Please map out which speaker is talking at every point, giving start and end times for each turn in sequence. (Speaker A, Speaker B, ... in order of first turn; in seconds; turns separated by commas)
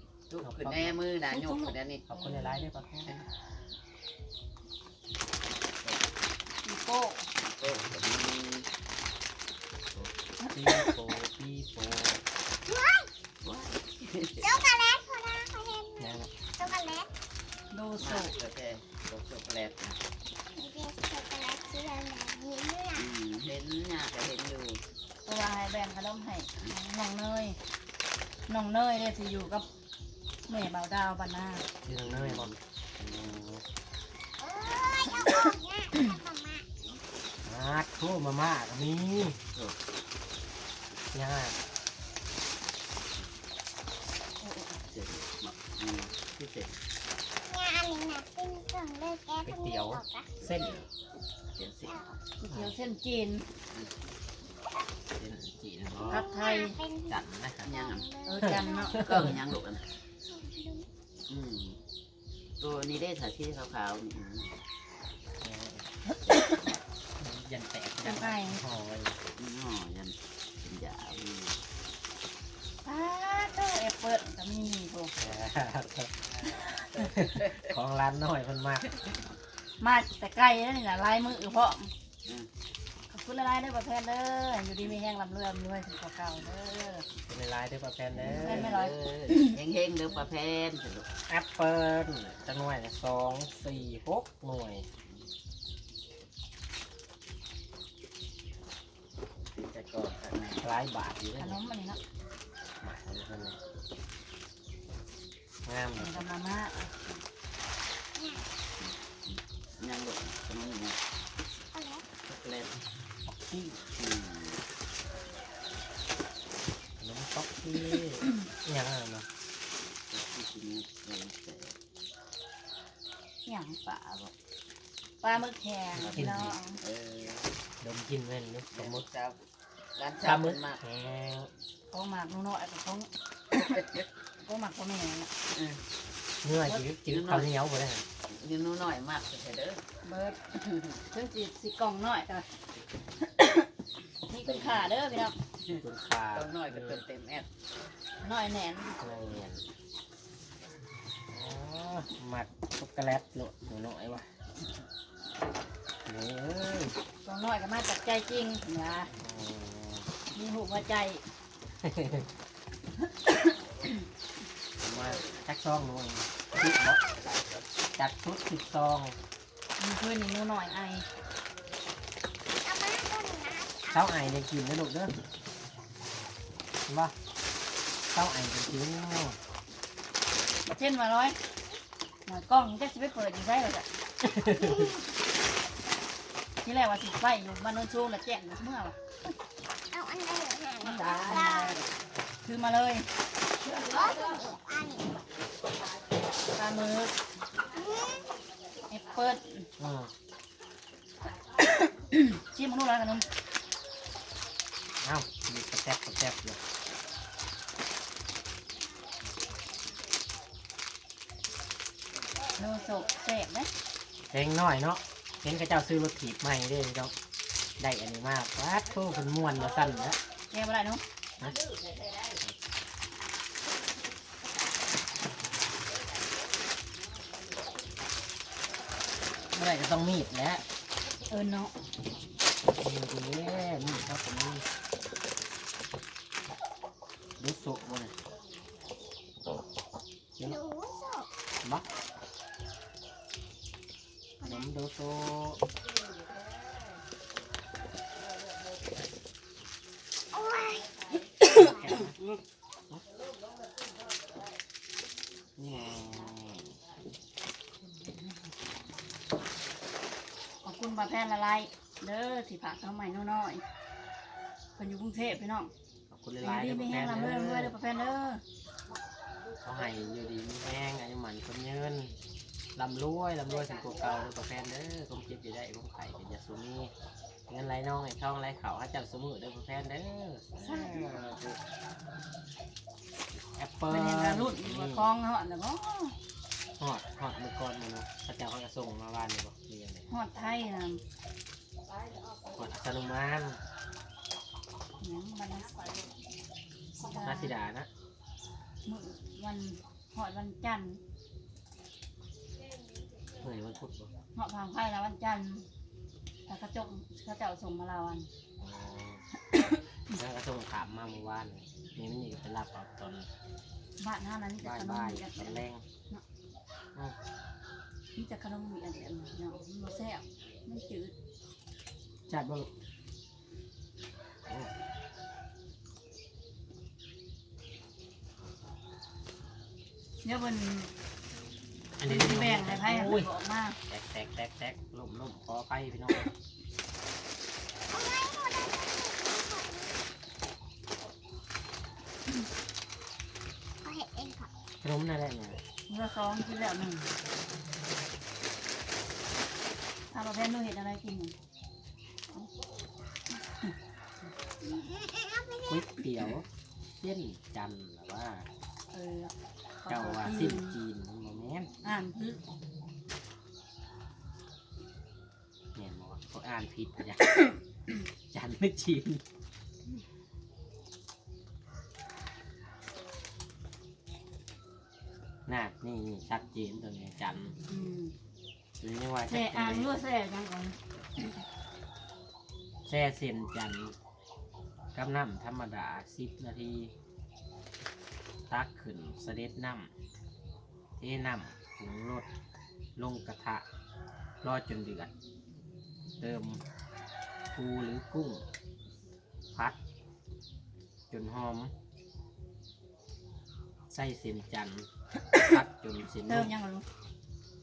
Speaker A: 0.3-2.0, Speaker B: 0.4-1.0, Speaker C: 1.3-2.7, Speaker B: 2.1-3.3, Speaker C: 6.6-7.2, Speaker A: 7.4-8.7, Speaker C: 10.4-10.7, Speaker B: 10.5-12.2, Speaker D: 12.7-13.1, Speaker A: 13.4-14.5, Speaker D: 14.4-17.1, Speaker B: 16.0-16.3, Speaker C: 17.7-18.3, Speaker A: 18.0-20.0, Speaker D: 20.6-23.1, Speaker A: 22.9-24.8, Speaker C: 25.2-27.6, Speaker C: 28.5-29.7, Speaker C: 30.5-31.6, Speaker B: 31.8-32.5, Speaker A: 32.0-33.4, Speaker B: 33.1-33.5, Speaker D: 34.4-36.8, Speaker A: 35.0-35.4, Speaker B: 37.4-39.4, Speaker B: 41.1-41.6, Speaker C: 44.4-44.8, Speaker A: 44.9-46.7, Speaker D: 47.5-50.4, Speaker B: 49.4-50.8, Speaker A: 50.4-50.8, Speaker A: 51.5-52.0, Speaker D: 51.8-52.2, Speaker C: 52.4-53.5, Speaker B: 52.5-52.7, Speaker B: 55.1-56.2, Speaker D: 56.0-59.0, Speaker C: 56.1-56.8, Speaker B: 57.1-57.7, Speaker A: 57.6-58.1, Speaker C: 58.2-59.3, Speaker B: 58.4-59.4, Speaker A: 58.9-59.8, Speaker D: 60.2-60.9, Speaker A: 61.3-61.8, Speaker A: 62.6-64.5, Speaker B: 65.4-65.8, Speaker C: 66.3-66.6, Speaker A: 66.3-66.6, Speaker B: 67.2-69.2, Speaker C: 68.0-68.6, Speaker A: 69.4-71.6, Speaker C: 72.8-75.1, Speaker B: 75.2-76.1, Speaker A: 76.4-77.7, Speaker C: 76.6-77.0, Speaker B: 77.0-78.8, Speaker C: 79.8-81.9, Speaker C: 83.1-87.0, Speaker B: 87.3-88.7, Speaker C: 88.2-89.6, Speaker A: 88.2-91.1, Speaker B: 91.3-94.8, Speaker A: 99.5-100.7, Speaker B: 100.6-101.6, Speaker C: 101.4-102.0, Speaker B: 102.8-103.6, Speaker B: 105.6-106.3, Speaker C: 106.0-106.9, Speaker D: 108.2-108.5, Speaker A: 108.8-111.0, Speaker D: 111.7-112.0, Speaker A: 112.2-112.8, Speaker B: 113.3-113.8, Speaker A: 113.9-114.6, Speaker B: 117.0-119.3, Speaker A: 120.1-121.7, Speaker C: 123.5-123.8, Speaker A: 123.8-124.3, Speaker C: 125.2-126.8, Speaker B: 125.9-126.5, Speaker A: 126.0-127.5, Speaker B: 127.8-129.1, Speaker A: 128.7-129.4, Speaker A: 130.0-130.8, Speaker B: 130.2-131.5, Speaker C: 131.9-133.1, Speaker C: 134.4-135.3, Speaker A: 135.5-135.8, Speaker B: 136.4-138.0, Speaker A: 137.1-137.5, Speaker A: 138.3-139.8, Speaker C: 140.0-140.4, Speaker C: 141.0-142.4, Speaker C: 143.2-143.7, Speaker C: 144.3-145.3, Speaker B: 145.7-147.0, Speaker A: 146.3-147.5, Speaker C: 148.2-149.0, Speaker B: 149.0-149.6, Speaker B: 151.3-154.3, Speaker B: 156.1-156.9, Speaker C: 157.2-159.1, Speaker B: 159.2-160.1, Speaker C: 160.3-161.2, Speaker B: 161.8-162.3, Speaker C: 163.3-164.0, Speaker B: 164.8-167.0, Speaker B: 167.9-169.2, Speaker C: 169.8-171.1, Speaker D: 172.6-174.3, Speaker B: 173.9-175.1, Speaker B: 176.9-177.1, Speaker B: 178.1-179.4, Speaker C: 180.6-181.4, Speaker C: 182.2-183.8, Speaker B: 184.2-184.9, Speaker C: 186.6-189.0, Speaker D: 189.9-191.8, Speaker C: 190.8-191.8, Speaker C: 192.4-193.1, Speaker D: 193.7-195.1, Speaker C: 196.5-197.1, Speaker D: 197.7-198.3, Speaker C: 198.9-199.7, Speaker B: 199.8-200.1, Speaker C: 201.6-203.3, Speaker B: 205.0-206.6, Speaker C: 212.6-213.7, Speaker B: 214.3-217.1, Speaker B: 217.8-220.2, Speaker C: 220.5-221.0, Speaker B: 229.5-230.6, Speaker C: 231.3-231.7, Speaker B: 232.7-234.6, Speaker B: 237.4-238.1, Speaker D: 240.4-241.3, Speaker D: 244.4-244.7, Speaker B: 244.4-245.6, Speaker D: 250.3-251.9, Speaker B: 251.4-253.0, Speaker B: 255.6-256.8, Speaker C: 260.6-263.6, Speaker C: 264.8-265.7, Speaker B: 266.1-267.7, Speaker C: 266.4-268.4, Speaker B: 269.6-272.1, Speaker B: 272.7-276.9, Speaker B: 277.5-281.6, Speaker C: 280.6-281.1, Speaker B: 283.5-285.1, Speaker C: 283.9-286.1, Speaker B: 286.8-290.1, Speaker C: 290.1-291.0, Speaker B: 292.3-293.6, Speaker C: 295.0-296.1, Speaker C: 297.0-297.5, Speaker B: 297.1-297.9, Speaker C: 298.8-301.0, Speaker B: 303.3-304.1, Speaker C: 304.3-305.7, Speaker C: 306.5-308.3, Speaker B: 308.6-309.2, Speaker C: 309.5-309.8, Speaker B: 310.1-313.3, Speaker C: 314.0-316.2, Speaker B: 314.6-315.8, Speaker C: 318.1-321.1, Speaker B: 322.3-322.7, Speaker B: 324.5-324.7, Speaker C: 330.2-330.9, Speaker B: 332.0-333.3, Speaker C: 332.0-333.8, Speaker B: 333.9-336.3, Speaker D: 337.9-340.0, Speaker D: 343.8-344.5, Speaker B: 344.8-345.6, Speaker C: 345.9-347.1, Speaker C: 350.1-351.3, Speaker D: 354.6-355.9, Speaker B: 355.6-356.5, Speaker B: 357.0-358.5, Speaker C: 358.9-360.8, Speaker B: 359.9-361.7, Speaker C: 361.8-362.4, Speaker B: 365.7-367.3, Speaker B: 368.3-369.2, Speaker B: 375.4-377.6, Speaker C: 377.7-378.1, Speaker B: 378.8-379.9, Speaker C: 379.3-381.4, Speaker B: 382.9-383.9, Speaker B: 384.9-386.9, Speaker B: 388.5-389.9, Speaker B: 391.0-392.3, Speaker B: 393.0-393.6, Speaker B: 394.4-395.1, Speaker B: 396.2-396.6, Speaker B: 397.5-398.4, Speaker B: 399.5-399.8, Speaker B: 401.1-401.7, Speaker B: 403.9-406.5, Speaker C: 406.2-406.8